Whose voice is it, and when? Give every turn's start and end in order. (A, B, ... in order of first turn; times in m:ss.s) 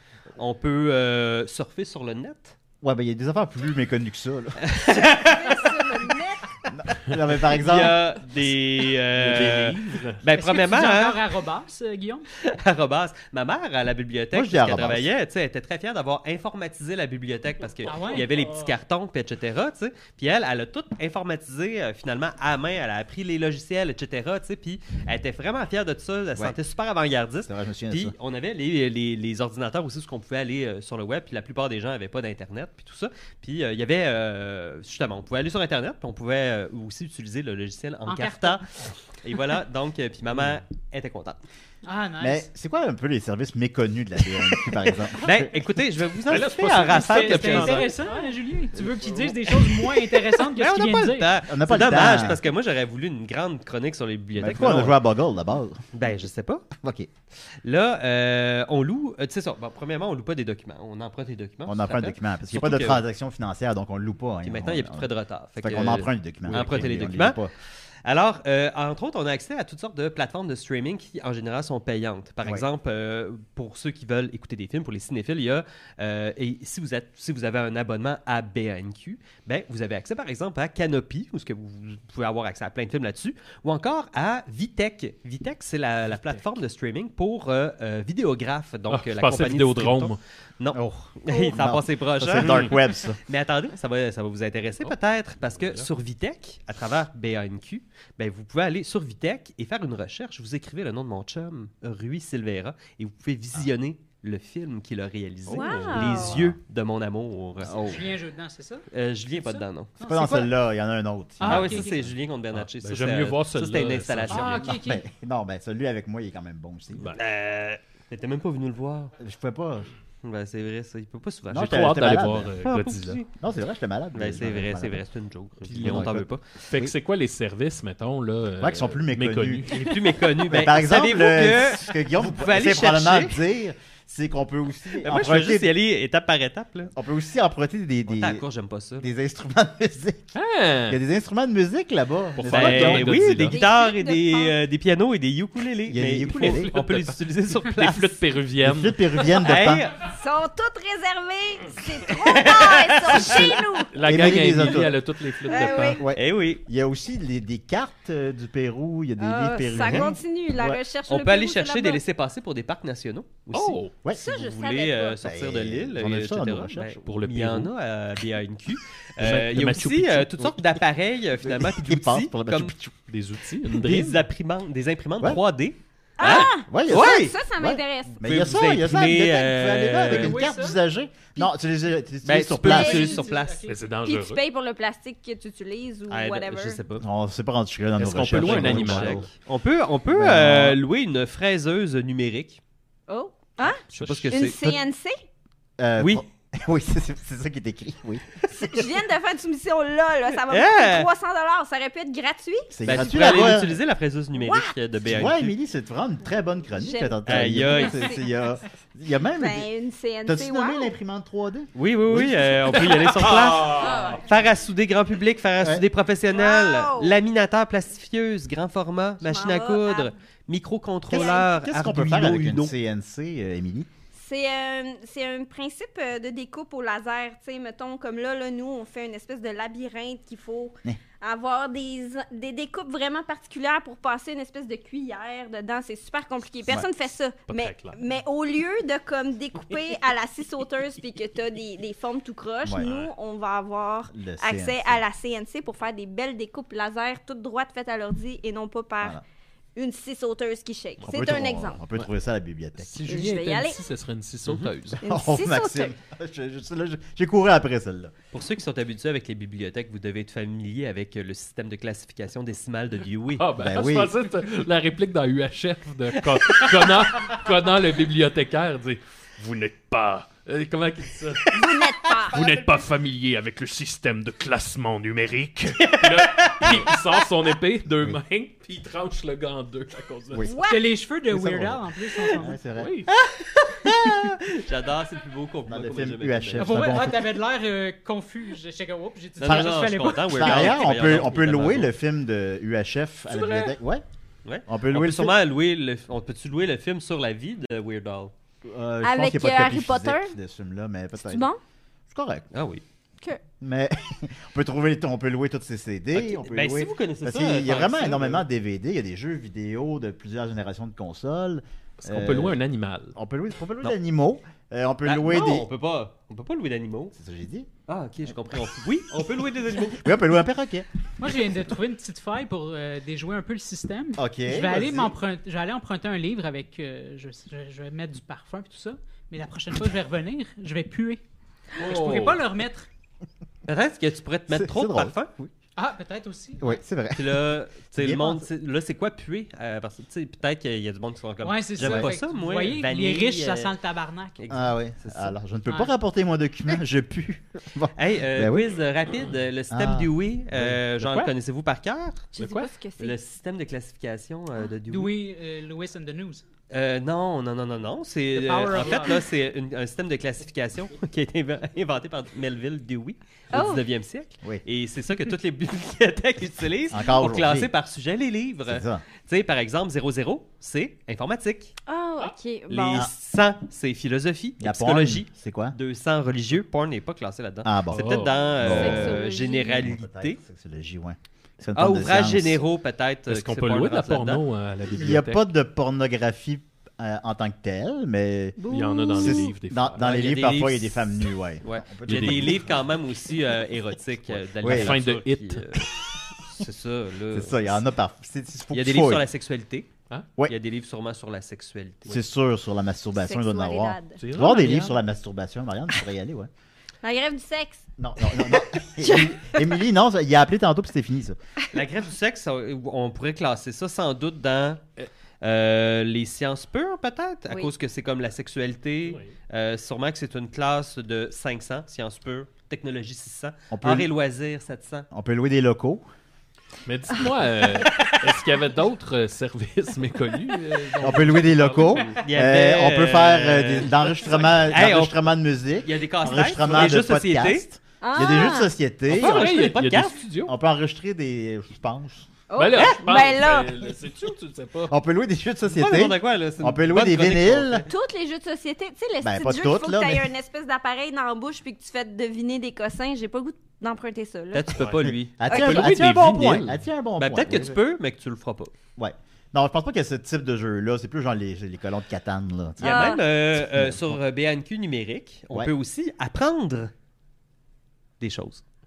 0:00.4-0:02.6 A
0:02.8-0:04.6 B
0:04.6-0:06.0 A
0:05.0-0:06.4 C
0:06.7-0:08.1 B
0:07.4-0:11.2 A
0:09.1-0:10.2 D
0:09.3-0:09.7 B
0:10.4-0:12.3 E
0:12.4-0:38.6 A
0:14.3-0:15.1 B
0:17.8-0:18.7 E
0:27.5-0:28.2 B
0:38.1-0:38.6 E
0:39.2-0:41.4 A
0:41.8-0:42.5 E
0:42.2-0:45.6 B
0:45.1-0:48.0 A
0:46.2-0:47.9 D
0:46.9-0:51.3 E
0:49.5-0:55.0 A
0:51.5-0:52.4 B
0:54.4-0:55.9 B
0:55.9-0:56.7 A
0:56.7-0:57.1 B
0:57.6-1:03.0 A
1:01.7-1:07.5 B
1:04.4-1:07.4 A
1:06.5-1:07.2 D
1:08.0-1:48.0 A
1:28.9-1:30.2 D
1:30.7-1:33.2 B
1:34.8-1:35.9 D
1:45.5-1:46.4 C
1:45.5-1:46.2 D
1:46.0-1:46.6 B
1:47.6-1:48.0 B
1:47.8-1:48.8 E
1:48.9-1:49.9 A
1:50.0-1:50.5 E
1:50.0-1:52.1 B
1:51.4-1:51.9 E
1:51.4-1:54.7 A
1:52.5-1:54.7 D
1:54.3-1:55.0 E
1:54.6-1:57.1 B
1:57.1-1:59.1 A
1:59.2-1:59.9 B
2:00.2-2:01.9 A
2:01.5-2:05.0 B
2:01.6-2:03.2 D
2:02.6-2:03.3 A
2:04.2-2:06.4 A
2:05.7-2:10.1 D
2:05.7-2:06.9 B
2:08.6-2:09.8 B
2:09.7-2:13.4 A
2:10.5-2:15.7 B
2:14.9-2:16.9 A
2:17.0-2:18.4 B
2:18.1-2:19.1 A
2:19.0-2:20.4 B
2:20.4-2:21.0 D
2:20.9-2:23.4 B
2:22.4-2:23.6 D
2:22.4-2:28.2 A
2:23.5-2:24.6 C
2:25.9-2:26.7 B
2:26.2-2:29.4 D
2:28.6-2:29.9 B
2:29.3-2:30.0 A
2:30.0-2:34.9 C
2:32.2-2:33.5 A
2:33.1-2:36.0 D
2:34.0-2:35.0 B
2:35.4-2:36.0 C
2:35.9-2:40.8 B
2:36.1-2:36.6 A
2:39.2-2:42.0 C
2:41.1-2:52.7 A
2:43.5-2:43.9 D
2:44.0-2:44.3 B
2:44.1-2:45.2 C
2:45.2-2:47.0 B
2:47.0-2:47.7 D
2:49.2-2:50.4 D
2:50.4-2:50.8 B
2:51.4-2:52.9 B
2:53.1-2:54.2 D
2:53.7-2:57.4 A
2:56.2-2:58.3 C
2:56.2-3:03.2 B
2:58.2-3:00.4 A
3:00.1-3:00.8 E
3:02.2-3:03.7 A
3:02.6-3:03.3 C
3:02.7-3:03.8 E
3:03.7-3:04.4 D
3:04.0-3:06.8 C
3:06.1-3:07.1 A
3:07.0-3:09.3 B
3:08.0-3:09.3 D
3:08.3-3:12.6 A
3:10.1-3:10.8 B
3:13.1-3:15.2 C
3:13.9-3:14.6 A
3:13.9-3:14.5 D
3:14.5-3:14.8 B
3:15.8-3:18.7 B
3:16.0-3:16.2 A
3:18.5-3:23.2 C
3:20.5-3:21.1 A
3:22.7-3:23.8 B
3:22.8-3:25.5 A
3:24.4-3:24.7 C
3:25.1-3:29.7 B
3:26.7-3:28.3 C
3:27.2-3:28.1 A
3:29.4-3:30.9 C
3:30.2-3:33.3 B
3:31.8-3:42.7 A
3:32.7-3:34.2 D
3:33.8-3:34.2 C
3:36.3-3:37.2 C
3:39.2-3:40.1 C
3:41.1-3:41.5 C
3:41.1-3:43.9 B
3:44.1-4:09.2 C
3:57.5-3:58.0 D
4:02.6-4:02.9 B
4:02.8-4:03.1 D
4:04.1-4:05.0 B
4:09.8-4:11.8 C
4:11.1-4:13.1 B
4:12.8-4:15.0 D
4:13.0-4:13.8 C
4:14.4-4:14.7 A
4:15.0-4:15.9 C
4:15.0-4:18.2 B
4:18.3-4:23.5 A
4:23.4-4:40.5 D
4:23.6-4:24.1 B
4:26.3-4:26.9 A
4:31.5-4:32.4 C
4:35.8-4:37.0 A
4:40.3-4:40.6 B
4:40.4-4:40.9 C
4:40.7-4:42.6 E
4:41.3-4:43.0 B
4:42.8-4:43.1 D
4:43.1-4:47.0 A
4:43.9-4:44.3 B
4:45.7-4:47.4 B
4:46.6-4:50.8 E
4:49.4-4:51.9 A
4:49.4-4:49.8 B
4:50.3-4:54.0 B
4:54.4-4:58.3 A
4:54.7-4:55.4 B
4:58.6-5:01.5 B
4:59.0-5:00.4 C
5:01.2-5:01.6 C
5:02.1-5:02.5 B
5:02.5-5:02.8 A
5:03.6-5:12.6 B
5:06.1-5:08.4 A
5:12.0-5:13.1 D
5:13.1-5:15.7 B
5:15.0-5:17.1 A
5:17.2-5:17.7 B
5:17.9-5:20.1 A
5:19.9-5:20.9 B
5:21.2-5:31.2 E
5:24.2-5:25.1 B
5:31.8-5:32.4 D
5:31.8-5:32.9 E
5:33.7-5:35.5 A
5:34.5-5:35.2 B
5:35.8-5:36.8 E
5:36.6-5:38.5 B
5:37.2-5:43.8 A
5:41.4-5:44.5 E
5:41.8-5:42.1 B
5:44.4-5:45.4 A
5:44.5-5:48.7 B
5:45.7-5:45.9 E
5:48.0-5:52.3 A
5:49.7-5:50.8 B
5:51.0-5:51.3 D
5:52.3-5:53.2 C
5:52.4-5:52.7 D
5:53.0-5:55.2 A
5:54.9-5:56.4 E
5:56.7-6:11.7 A
5:58.3-5:59.3 E
6:03.5-6:03.8 C
6:06.9-6:07.7 B
6:08.7-6:09.0 B
6:11.9-6:13.1 C
6:12.7-6:20.4 A
6:14.6-6:15.8 B
6:17.6-6:22.6 B
6:17.9-6:19.0 D
6:18.4-6:19.9 C
6:21.8-6:24.4 A
6:23.3-6:25.4 D
6:24.9-6:32.9 B
6:28.6-6:29.6 C
6:28.7-6:30.1 D
6:30.0-6:31.1 A
6:31.6-6:35.9 A
6:32.1-6:32.7 D
6:34.6-6:35.0 B
6:34.6-6:35.9 D
6:36.5-6:37.8 A
6:37.3-6:39.3 B
6:38.7-6:39.9 A
6:40.5-6:42.2 A
6:42.1-6:46.5 B
6:43.2-6:44.2 C
6:44.2-6:45.0 D
6:47.0-6:49.8 C
6:48.0-6:51.4 B
6:51.7-6:54.8 A
6:55.4-7:05.1 A
6:59.0-6:59.3 D
7:03.7-7:04.1 B
7:05.1-7:06.0 B
7:06.8-7:12.2 D
7:07.9-7:08.2 A
7:11.0-7:19.8 B
7:12.2-7:15.2 A
7:15.8-7:17.6 A
7:18.0-7:18.7 C
7:19.1-7:20.5 D
7:19.1-7:20.2 A
7:20.4-7:22.3 B
7:22.5-7:24.0 C
7:22.6-7:25.0 D
7:22.7-7:23.1 A
7:24.9-7:27.8 B
7:25.7-7:27.9 A
7:27.9-7:34.8 C
7:29.2-7:30.3 B
7:34.5-7:35.9 A
7:34.8-7:36.8 D
7:35.0-7:37.8 B
7:35.4-7:35.9 C
7:37.2-7:38.7 A
7:39.0-7:44.2 B
7:42.8-7:43.3 C
7:42.8-7:46.9 A
7:48.2-7:48.6 A